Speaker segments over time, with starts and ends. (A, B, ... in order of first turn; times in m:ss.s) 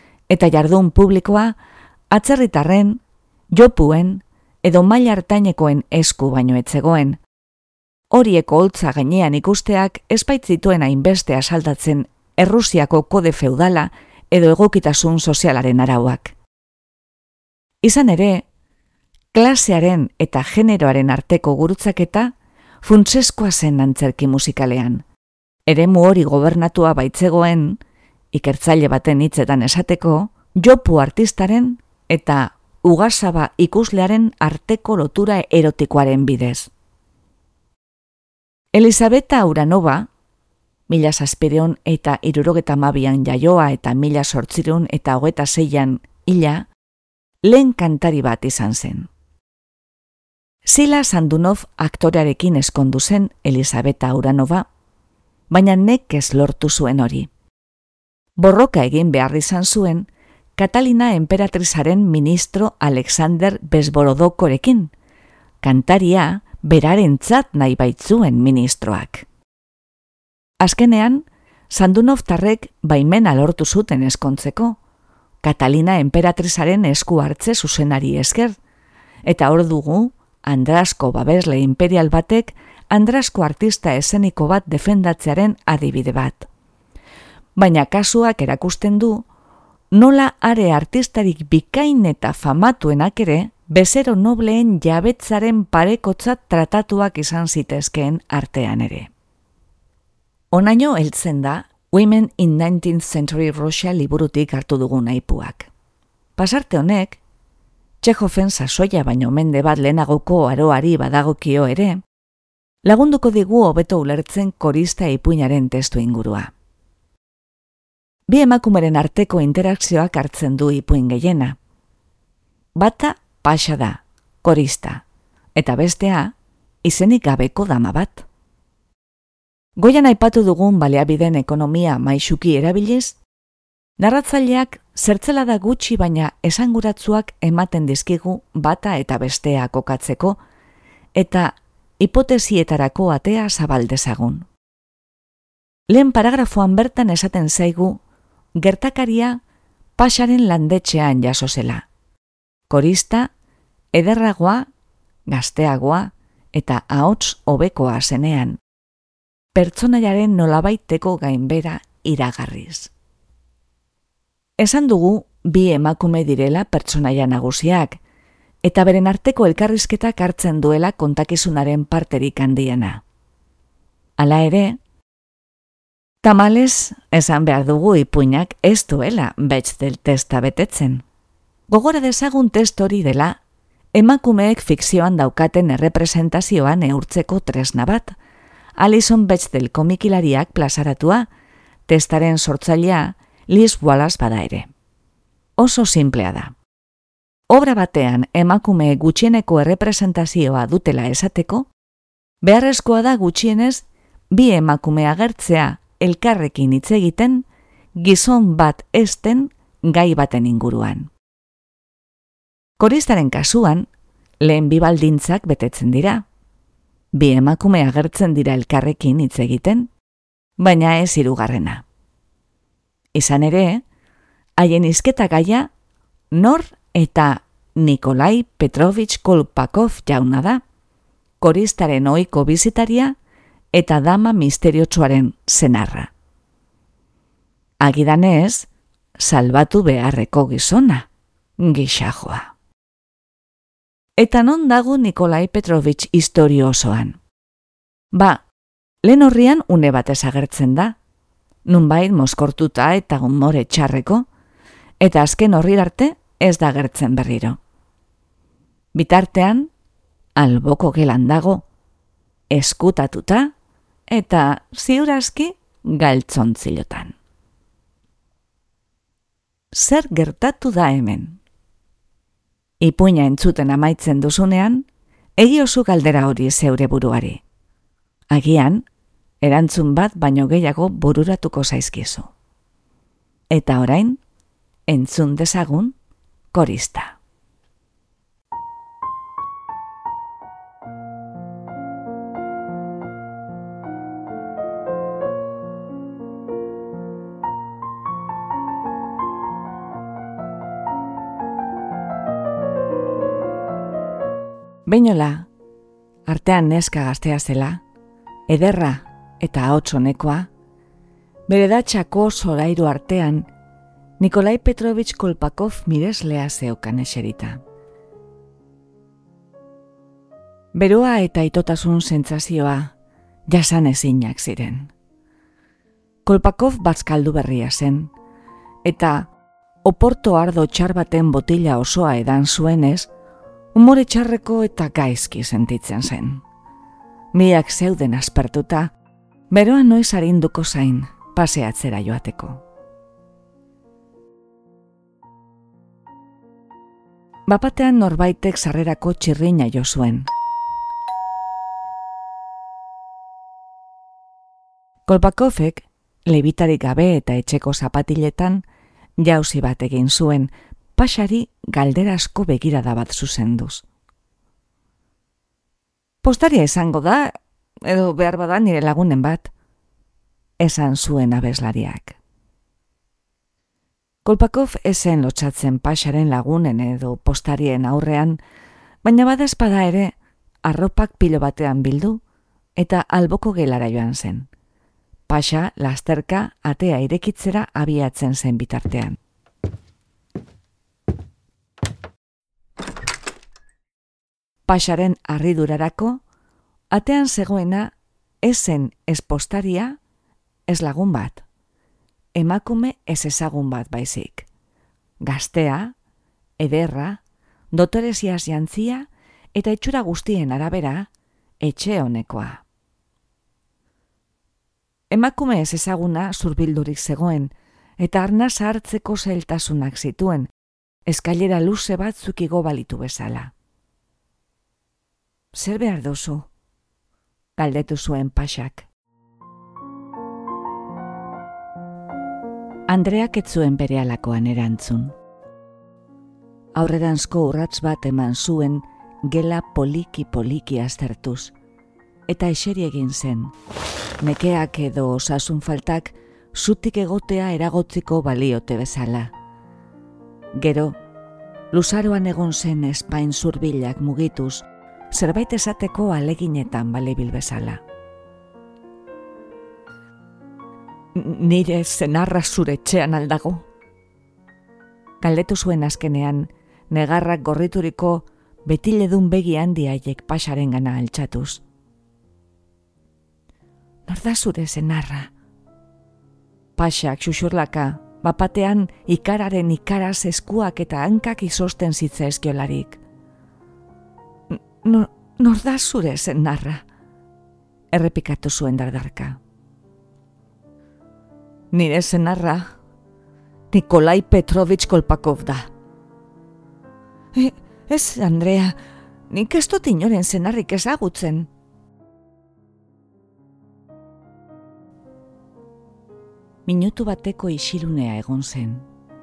0:00.3-0:01.6 A
0:02.1-0:07.2 A
0:08.1-0:16.4 A
0:17.8-0:18.5 A
0:19.3-0:25.0 A
0:25.7-0:27.8 A
0:28.3-0:36.7 A
0:38.7-0:40.1 A
0:40.9-0:46.7 A
0:47.4-0:49.1 A
0:50.6-0:54.7 A
0:55.5-0:57.3 A
0:58.4-1:04.9 A
1:05.6-1:09.3 A
1:10.6-1:14.8 A
1:15.4-1:18.6 A
1:19.2-1:26.5 A
1:27.6-1:29.3 A
1:29.9-1:39.1 A
1:40.5-1:45.7 A
1:46.4-1:47.2 A
1:48.0-1:52.0 A
1:52.8-1:56.5 A
1:58.3-2:01.6 A
2:02.8-2:05.0 A
2:05.6-2:08.3 A
2:09.8-2:13.2 A
2:14.0-2:20.4 A
2:21.2-2:24.5 A
2:25.9-2:28.0 A
2:28.6-2:29.4 A
2:30.0-2:31.9 A
2:32.7-2:33.3 A
2:33.9-2:34.7 A
2:35.3-2:38.6 A
2:39.5-2:42.9 A
2:44.6-2:48.0 A
2:48.6-2:53.0 A
2:54.2-2:54.8 A
2:56.2-3:01.0 A
3:01.7-3:03.4 A
3:04.0-3:08.2 A
3:08.8-3:11.3 A
3:11.9-3:14.7 A
3:15.6-3:16.6 A
3:17.5-3:21.7 A
3:22.4-3:31.1 A
3:32.8-3:33.9 A
3:34.4-3:36.3 A
3:37.1-3:39.9 A
3:40.6-3:41.8 A
3:43.1-3:43.8 A
3:44.6-3:45.7 A
3:46.3-3:50.6 A
3:51.4-3:53.2 A
3:53.7-3:56.1 A
3:57.8-4:02.5 A
4:04.2-4:07.2 A
4:08.1-4:08.5 A
4:09.0-4:11.0 A
4:11.6-4:14.3 A
4:15.0-4:17.6 A
4:19.0-4:19.7 A
4:20.4-4:21.6 A
4:22.5-4:23.5 A
4:24.1-4:27.2 A
4:29.7-4:31.4 A
4:32.8-4:37.4 A
4:38.3-4:38.9 A
4:39.4-4:42.3 A
4:43.5-4:44.2 A
4:44.9-4:46.0 A
4:46.5-4:47.2 A
5:04.9-5:05.5 A
5:06.3-5:07.8 A
5:08.5-5:10.5 A
5:11.5-5:13.5 A
5:14.2-5:17.6 A
5:20.7-5:22.9 A
5:23.5-5:24.9 A
5:26.3-5:28.1 A
5:28.8-5:29.3 A
5:29.8-5:33.1 A
5:33.7-5:36.4 A
5:37.3-5:39.0 A
5:39.5-5:42.6 A
5:47.5-5:50.3 A
5:55.1-5:58.6 A
5:59.2-6:03.8 A
6:06.2-6:09.5 A
6:10.6-6:12.2 A
6:14.2-6:18.4 A
6:19.0-6:22.2 A
6:22.8-6:24.5 A
6:25.3-6:29.2 A
6:34.7-6:36.2 A
6:36.9-6:40.0 A
6:40.7-6:41.4 A
6:42.4-6:44.5 A
6:45.2-6:46.0 A
6:46.6-6:51.1 A
6:51.6-6:52.6 A
6:55.1-7:00.5 A
7:01.1-7:03.5 A
7:05.5-7:06.5 A
7:07.6-7:08.9 A
7:12.9-7:15.2 A
7:16.8-7:21.5 A
7:22.3-7:23.5 A
7:24.2-7:29.3 A
7:30.5-7:31.0 A
7:31.7-7:37.8 A
7:41.2-7:43.7 A
7:45.2-7:51.6 A
7:54.1-7:55.3 A
7:56.8-8:03.0 A
8:04.5-8:06.8 A
8:07.9-8:09.4 A
8:11.7-8:12.8 A
8:13.7-8:15.7 A
8:17.3-8:18.8 A
8:19.3-8:21.5 A
8:26.7-8:28.9 A